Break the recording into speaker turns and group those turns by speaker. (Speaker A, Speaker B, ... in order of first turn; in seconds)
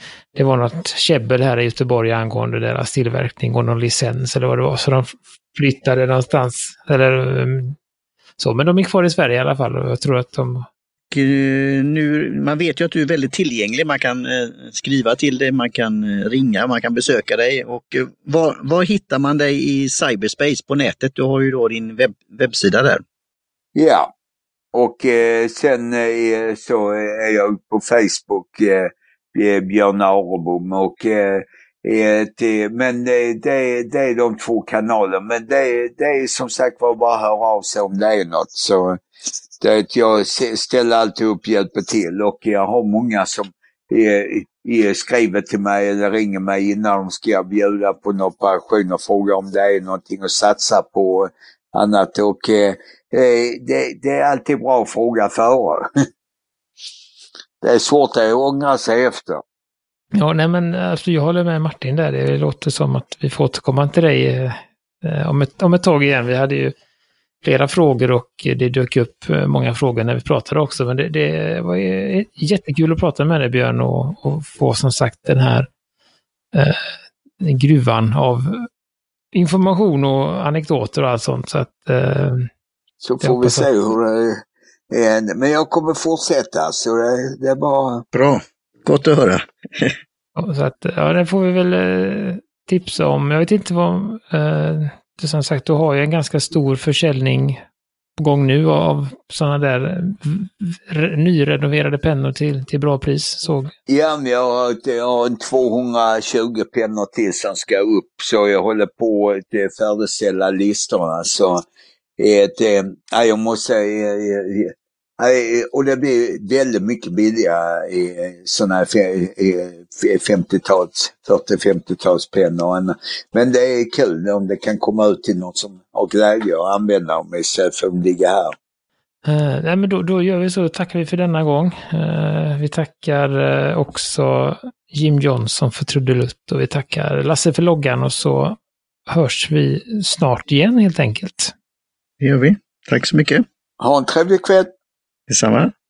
Speaker A: 0.3-7.8, 8.4-10.7, 60.1-66.7, 67.4-75.7, 76.5-76.9, 77.4-78.7, 79.3-82.5, 83.2-83.7, 90.4-97.6, 98.2-103.7, 129.2-141.5
Speaker B: 11.1-23.0, 88.1-89.9, 142.2-143.4, 145.3-145.7
Speaker C: 23.7-24.1, 24.7-39.0, 39.6-55.9, 57.6-59.4, 83.0-88.0, 103.9-111.6, 112.2-128.5, 143.8-144.7